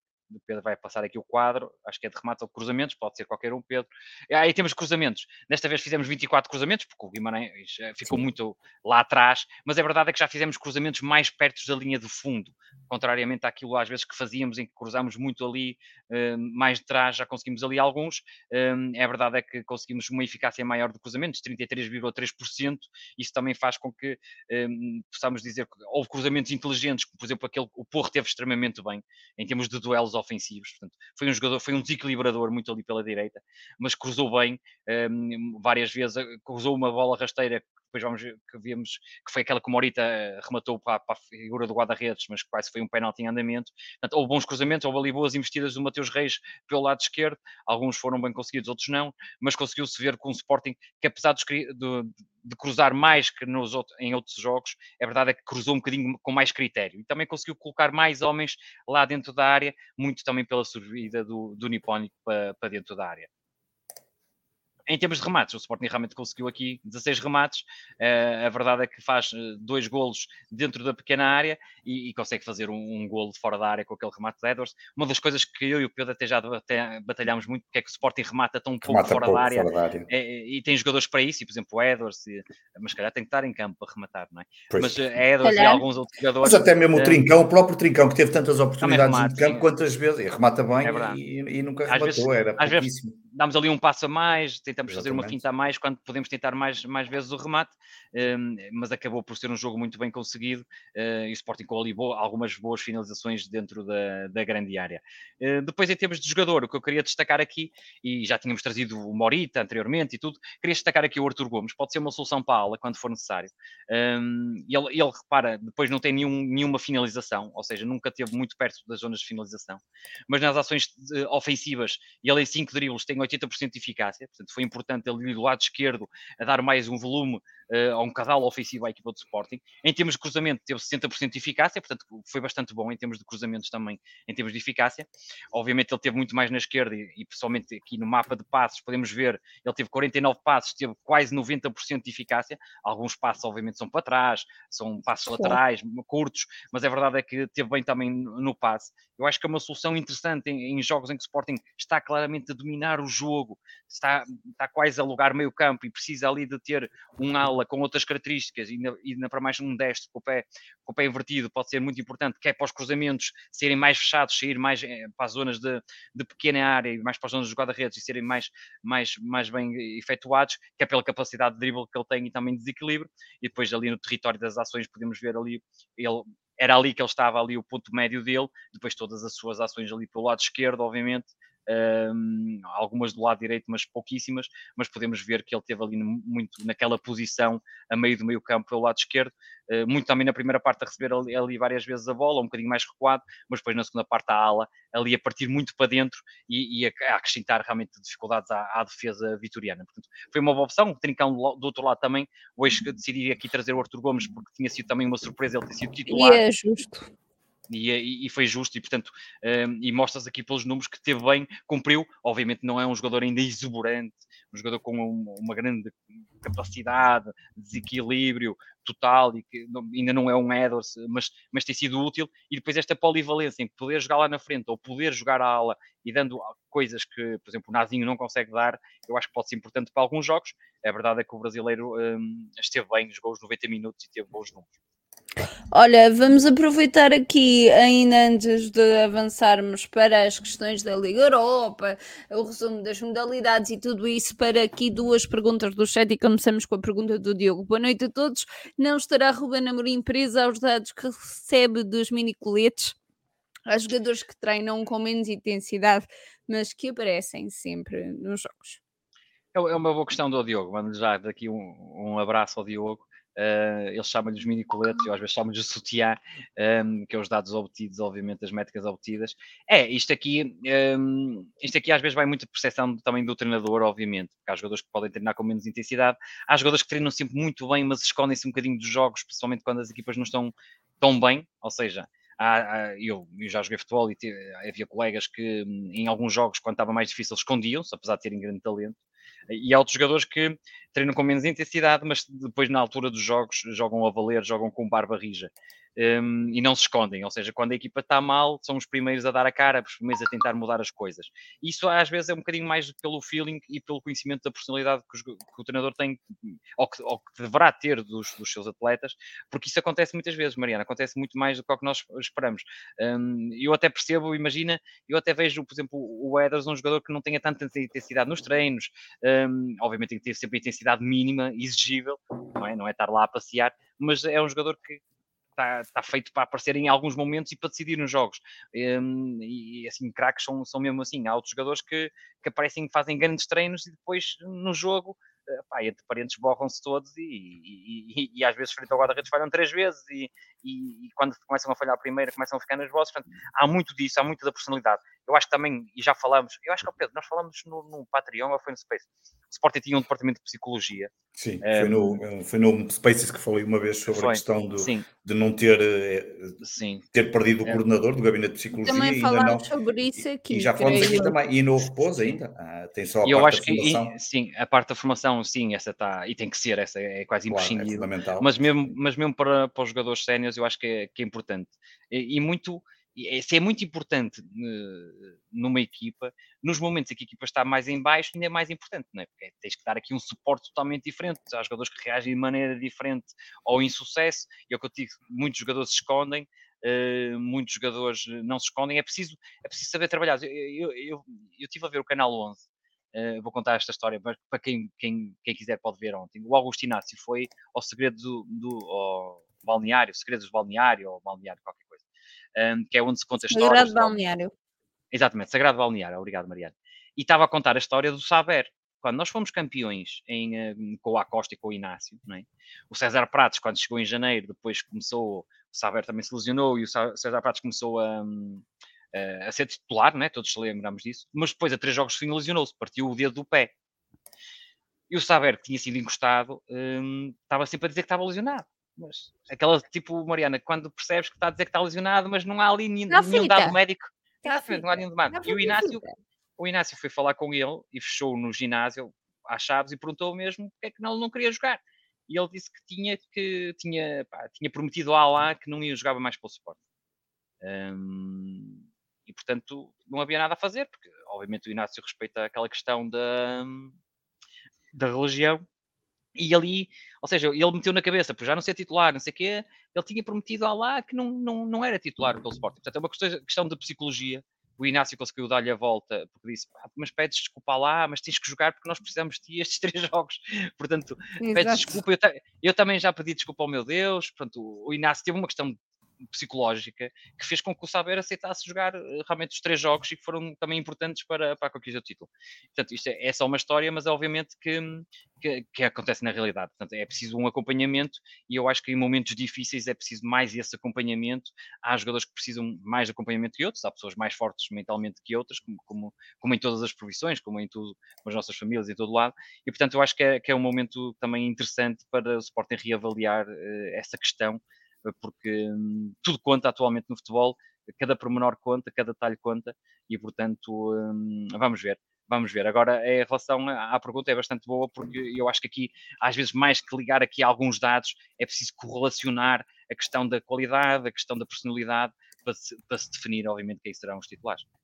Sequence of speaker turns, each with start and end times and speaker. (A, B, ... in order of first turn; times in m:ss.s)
0:00.3-1:03.3 A
1:04.9-1:27.2 A
1:18.8-1:20.1 B
1:24.7-1:25.0 B
1:25.4-1:25.8 C
1:26.4-1:33.2 B
1:28.8-1:29.6 A
1:30.8-1:31.2 A
1:31.9-3:26.4 A
1:34.9-1:35.4 B
2:25.3-2:25.6 C
3:26.1-3:27.1 C
3:27.7-3:54.7 A
3:55.7-4:13.0 C
4:13.7-4:18.8 C
4:19.5-4:49.0 A
4:49.5-5:25.0 A
5:25.6-5:51.1 A
5:51.4-5:56.6 B
5:51.6-5:52.1 A
5:54.1-5:55.1 A
5:56.6-5:57.0 A
5:57.1-5:59.7 B
5:58.8-6:01.4 C
6:00.4-6:04.1 B
6:03.2-6:42.0 A
6:07.5-6:08.9 B
6:42.6-6:44.1 A
6:43.4-6:44.5 C
6:45.1-7:03.7 A
7:05.1-7:16.0 A
7:13.1-7:13.8 C
7:14.4-7:16.1 C
7:16.6-7:26.8 A
7:27.6-7:33.9 A
7:34.9-7:35.6 A
7:36.4-7:55.8 A
7:51.4-7:51.9 C
7:56.3-8:44.6 A